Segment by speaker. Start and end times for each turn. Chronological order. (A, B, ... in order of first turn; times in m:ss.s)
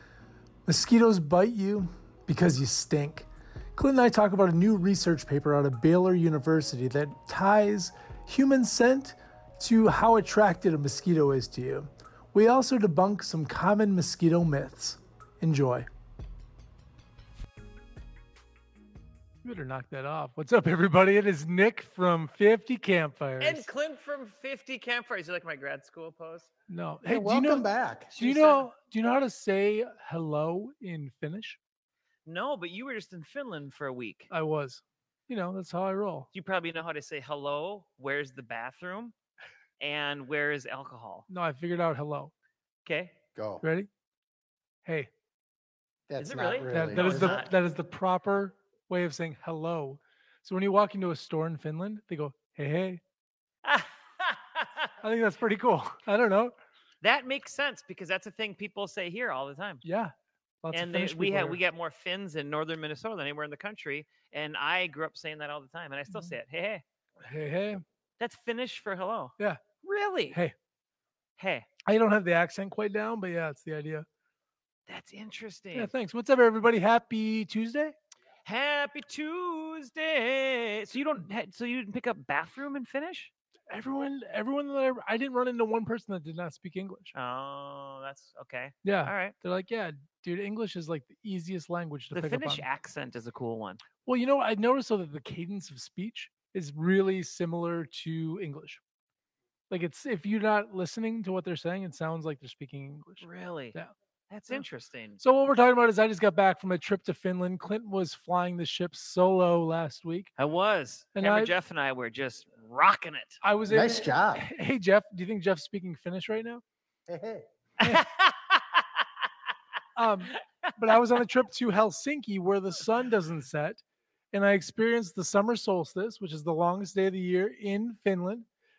0:00.7-0:15.9 A
0:19.4-0:23.7 A
0:23.4-0:26.5 B
0:26.7-0:31.6 A
0:27.1-0:28.1 C
0:28.1-0:28.7 B
0:32.3-0:34.3 B
0:34.3-0:36.3 A
0:36.3-0:39.1 B
0:39.8-0:41.3 B
0:41.3-0:42.3 A
0:42.9-0:43.2 B
0:43.4-0:43.6 C
0:43.6-0:43.9 A
0:44.8-0:45.1 A
0:46.1-0:47.4 C
0:46.2-0:47.5 B
0:46.7-0:53.0 A
0:53.6-0:54.9 B
0:55.0-0:56.5 A
0:57.0-0:59.8 B
0:59.8-1:01.6 A
1:00.7-1:06.8 B
1:07.2-1:07.8 A
1:08.2-1:10.4 B
1:11.4-1:11.7 B
1:11.9-1:14.0 A
1:14.9-1:15.9 B
1:15.7-1:18.0 A
1:18.4-1:23.3 B
1:23.7-1:27.1 A
1:27.1-1:29.3 B
1:28.8-1:32.7 A
1:32.1-1:33.8 B
1:34.0-1:38.8 A
1:39.7-1:43.9 A
1:43.2-1:43.8 B
1:44.3-1:45.2 B
1:45.2-1:50.3 A
1:50.4-1:53.4 B
1:51.2-1:51.5 A
1:53.4-1:56.6 A
1:53.7-1:54.5 C
1:57.1-1:57.5 C
1:57.8-1:58.8 B
2:00.0-2:03.8 A
2:00.7-2:01.0 B
2:04.3-2:08.5 A